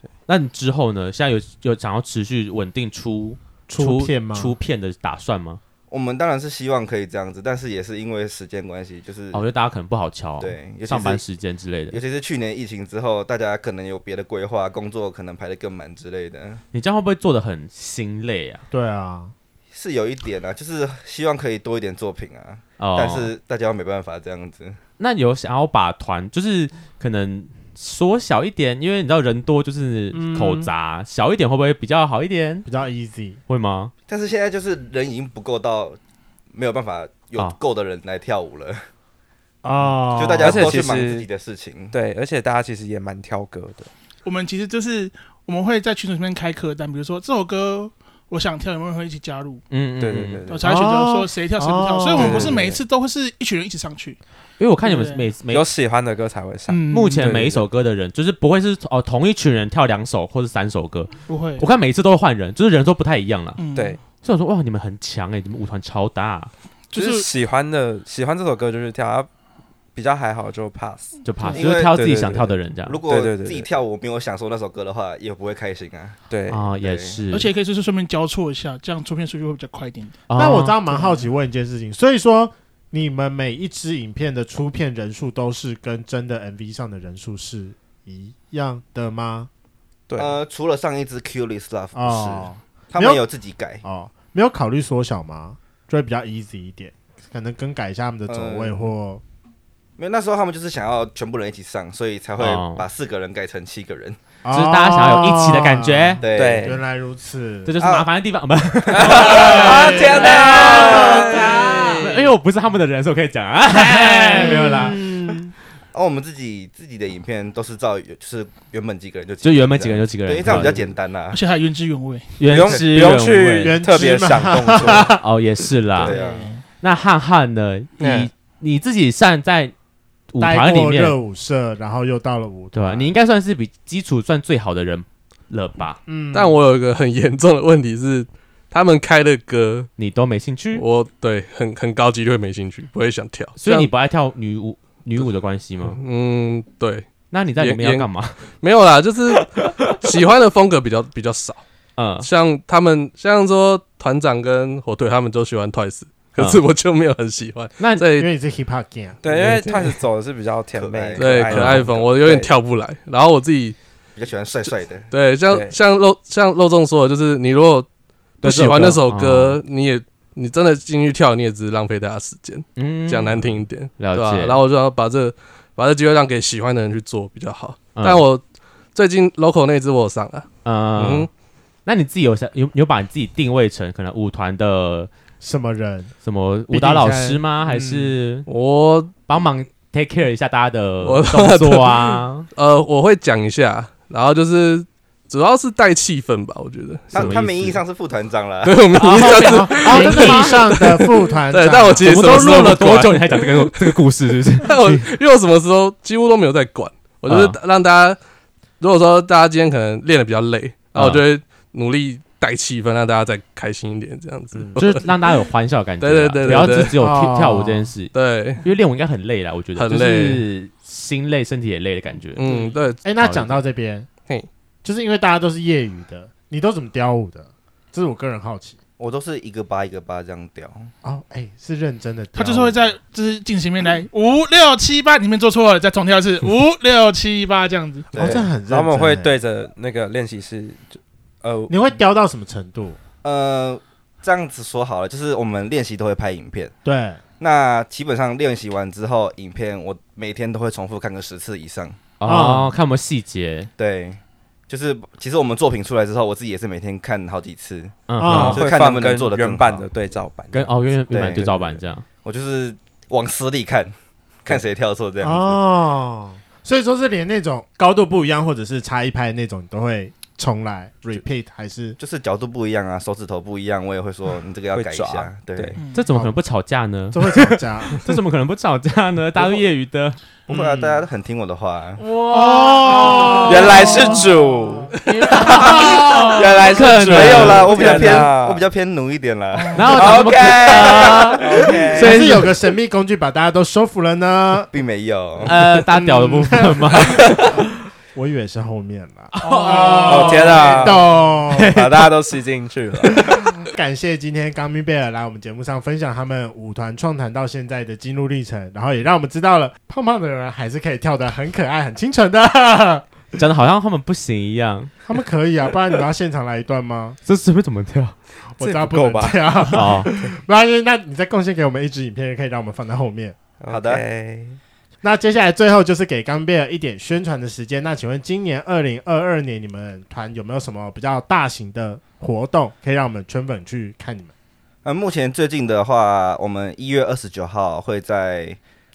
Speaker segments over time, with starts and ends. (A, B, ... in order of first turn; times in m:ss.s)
0:00.3-0:05.6 A
0:03.7-0:04.5 B
0:05.9-0:09.4 C
0:09.3-0:12.0 A
0:10.4-0:11.2 C
0:11.9-0:16.6 C
0:16.7-0:18.6 A
0:18.7-0:19.3 B
0:19.7-0:24.8 C
0:22.8-0:23.3 A
0:25.0-0:32.7 A
0:30.1-0:30.7 B
0:32.6-0:33.4 B
0:33.5-0:33.9 A
0:34.1-0:36.0 C
0:36.5-0:38.8 C
0:39.6-0:40.7 B
0:40.1-0:41.9 C
0:40.4-0:41.3 D
0:41.9-0:43.9 D
0:44.2-0:49.6 E
0:49.7-0:50.4 A
0:50.0-0:50.7 D
0:50.5-0:54.2 E
0:50.6-0:52.7 B
0:52.2-0:52.5 A
0:52.2-0:52.7 D
0:54.6-0:55.7 A
0:54.8-0:55.3 E
0:55.5-0:57.7 D
0:56.7-0:57.3 E
0:56.9-1:03.6 A
1:01.3-1:01.7 E
1:03.6-1:04.0 E
1:04.2-1:06.5 A
1:06.9-1:07.3 E
1:06.9-1:09.3 D
1:09.9-1:11.2 D
1:11.2-1:13.0 A
1:11.5-1:12.0 C
1:11.9-1:12.6 D
1:12.8-1:16.2 C
1:13.1-1:13.7 D
1:16.3-1:16.6 D
1:16.5-1:17.5 A
1:16.8-1:17.2 C
1:17.3-1:20.2 E
1:20.3-1:20.8 A
1:20.4-1:29.5 B
1:20.9-1:21.2 E
1:30.1-1:30.4 D
1:30.2-1:33.8 C
1:31.9-1:33.2 B
1:33.8-1:39.2 B
1:38.3-1:38.9 C
1:40.0-1:44.2 C
1:42.4-1:42.8 A
1:44.4-1:47.7 B
1:44.5-1:46.2 A
1:46.2-1:46.8 C
1:46.3-1:46.8 D
1:47.6-1:51.4 A
1:47.8-1:48.1 C
1:48.9-1:52.1 D
1:49.0-1:52.1 B
1:49.1-1:50.4 C
1:52.0-1:55.0 A
1:53.7-1:55.5 B
1:55.9-2:01.4 C
1:59.4-2:00.8 A
2:01.3-2:02.4 E
2:02.4-2:03.8 A
2:02.5-2:05.2 D
2:02.5-2:02.9 C
2:03.6-2:05.2 B
2:05.2-2:06.1 A
2:06.0-2:06.5 C
2:06.0-2:06.5 B
2:06.0-2:06.6 E
2:06.8-2:09.7 A
2:08.0-2:08.3 D
2:10.3-2:11.2 A
2:10.4-2:13.1 B
2:12.7-2:16.0 A
2:16.0-2:16.6 B
2:16.3-2:19.9 F
2:20.0-2:20.8 A
2:20.8-2:23.9 F
2:23.6-2:26.0 A
2:25.8-2:31.6 F
2:27.3-2:28.4 A
2:29.3-2:30.1 A
2:32.0-2:32.3 A
2:32.2-2:38.3 F
2:36.4-2:36.6 A
2:37.8-2:38.0 A
2:38.2-2:39.2 B
2:39.2-2:42.5 D
2:39.3-2:40.0 F
2:40.7-2:41.5 C
2:41.2-2:43.8 F
2:41.5-2:41.8 A
2:44.2-2:45.1 C
2:44.7-2:47.9 F
2:45.5-2:45.8 D
2:48.4-3:01.3 F
2:48.4-2:49.6 A
2:52.8-2:54.6 A
2:58.0-2:58.2 A
3:00.6-3:01.3 A
3:01.8-3:05.1 A
3:05.4-3:06.1 B
3:06.2-3:08.5 A
3:06.7-3:08.2 B
3:08.4-3:09.1 F
3:09.3-3:12.5 A
3:11.0-3:17.6 F
3:17.1-3:18.8 C
3:17.1-3:17.6 A
3:18.6-3:24.0 F
3:19.0-3:22.4 B
3:19.1-3:20.7 A
3:22.0-3:25.1 A
3:24.6-3:28.2 F
3:27.3-3:27.6 A
3:28.8-3:35.1 F
3:30.9-3:31.2 A
3:34.8-3:42.5 A
3:36.0-3:37.0 F
3:36.5-3:37.9 B
3:38.1-3:38.6 F
3:39.7-3:40.4 F
3:42.4-3:43.0 F
3:43.0-3:44.1 B
3:43.2-3:43.6 A
3:44.8-3:48.8 B
3:49.0-3:50.9 C
3:51.0-3:52.9 B
3:52.3-3:58.1 E
3:58.1-3:58.5 C
3:58.1-3:59.4 B
3:58.6-4:01.8 D
4:01.7-4:03.0 B
4:03.2-4:06.7 C
4:06.8-4:07.2 B
4:07.4-4:12.0 C
4:12.2-4:13.7 A
4:12.2-4:12.7 B
4:13.8-4:19.8 C
4:18.1-4:18.6 A
4:18.2-4:18.6 B
4:18.2-4:21.8 D
4:20.5-4:22.0 A
4:21.1-4:21.5 C
4:22.2-4:23.9 C
4:24.4-4:25.6 C
4:25.2-4:32.0 B
4:32.0-4:35.8 C
4:34.7-4:35.8 D
4:35.8-4:36.1 E
4:35.9-4:40.2 A
4:36.1-4:36.4 B
4:37.1-4:38.0 B
4:40.5-4:41.0 B
4:40.5-4:42.0 C
4:42.0-4:44.2 A
4:42.3-4:44.2 E
4:42.5-4:44.0 B
4:43.4-4:44.9 D
4:45.0-4:48.3 A
4:45.5-4:48.6 D
4:46.8-4:52.0 C
4:49.5-4:50.0 E
4:49.7-4:52.5 A
4:49.9-4:52.3 D
4:51.9-4:54.7 B
4:54.7-4:55.6 C
4:55.4-4:57.6 A
4:55.5-4:57.4 B
4:58.1-5:01.7 B
4:59.4-5:00.9 A
4:59.4-5:00.7 E
5:00.0-5:01.2 D
5:01.5-5:02.1 A
5:01.7-5:03.5 D
5:03.2-5:13.0 B
5:13.3-5:14.9 A
5:15.0-5:17.2 B
5:17.2-5:18.1 A
5:18.6-5:23.4 B
5:18.6-5:20.3 D
5:19.7-5:20.1 A
5:23.6-5:24.6 D
5:23.7-5:24.0 C
5:25.0-5:34.3 B
5:34.8-5:38.6 C